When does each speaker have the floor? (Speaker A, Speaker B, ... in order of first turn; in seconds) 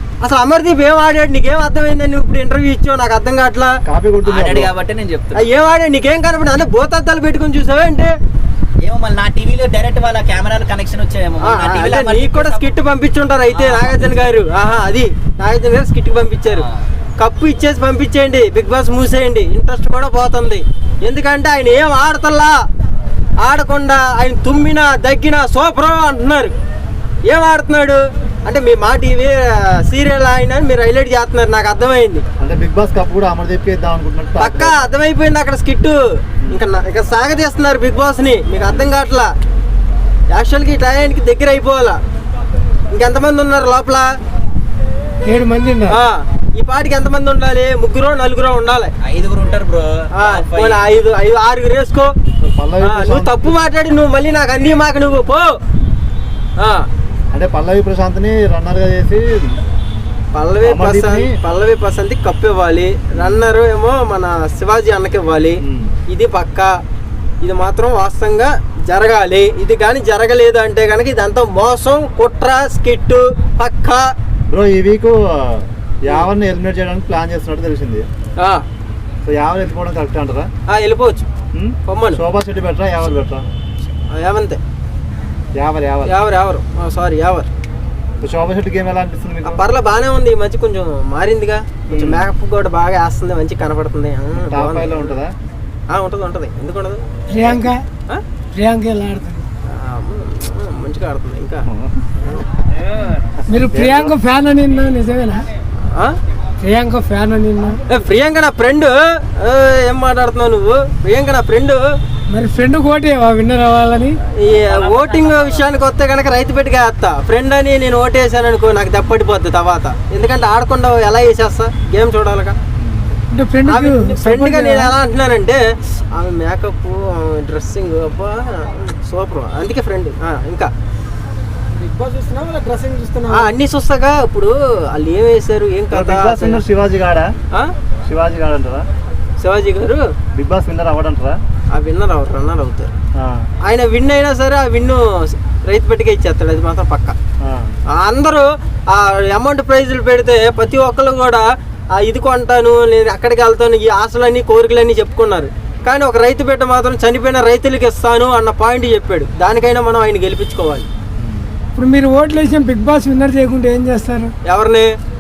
Speaker A: 0.2-3.8, 5.3-8.1, 11.4-16.6, 17.2-22.6, 23.4-26.5, 27.3-32.2, 34.4-36.0, 36.5-39.3, 40.3-42.0, 42.9-44.1, 45.9-48.9, 50.1-52.1, 52.8-55.5, 56.6-56.9, 60.3-66.7, 67.4-74.0, 78.4-78.6, 80.7-81.3, 81.8-82.2, 84.1-84.6, 86.0-87.5, 89.4-95.1, 95.9-98.2, 99.7-101.7, 105.8-106.2, 107.9-111.8, 114.4-122.6, 123.7-130.7, 133.3-136.6, 139.4-140.1, 141.7-142.9, 143.6-147.1, 147.9-160.9, 164.4-164.9
Speaker B: 3.9-4.7, 32.4-34.8, 52.4-53.5, 57.3-59.6, 60.6-61.4, 63.1-63.5, 65.6-65.9, 74.5-78.0, 79.2-80.5, 81.5-83.4, 85.5-86.2, 88.2-89.6, 91.9-92.3, 94.3-95.3, 101.7-102.1, 103.6-104.2, 122.8-123.1, 135.9-137.3, 138.1-138.8, 140.3-141.4, 143.2-143.5, 147.4-147.7, 161.2-161.5
Speaker C: 4.2-5.5, 8.8-12.7, 13.5-14.2, 49.0-50.8, 114.5-115.6
Speaker D: 45.2-46.0, 97.3-97.8, 98.5-99.5, 103.5-105.5, 106.6-107.8, 112.3-114.2, 123.3-124.9, 131.7-133.5, 161.7-164.3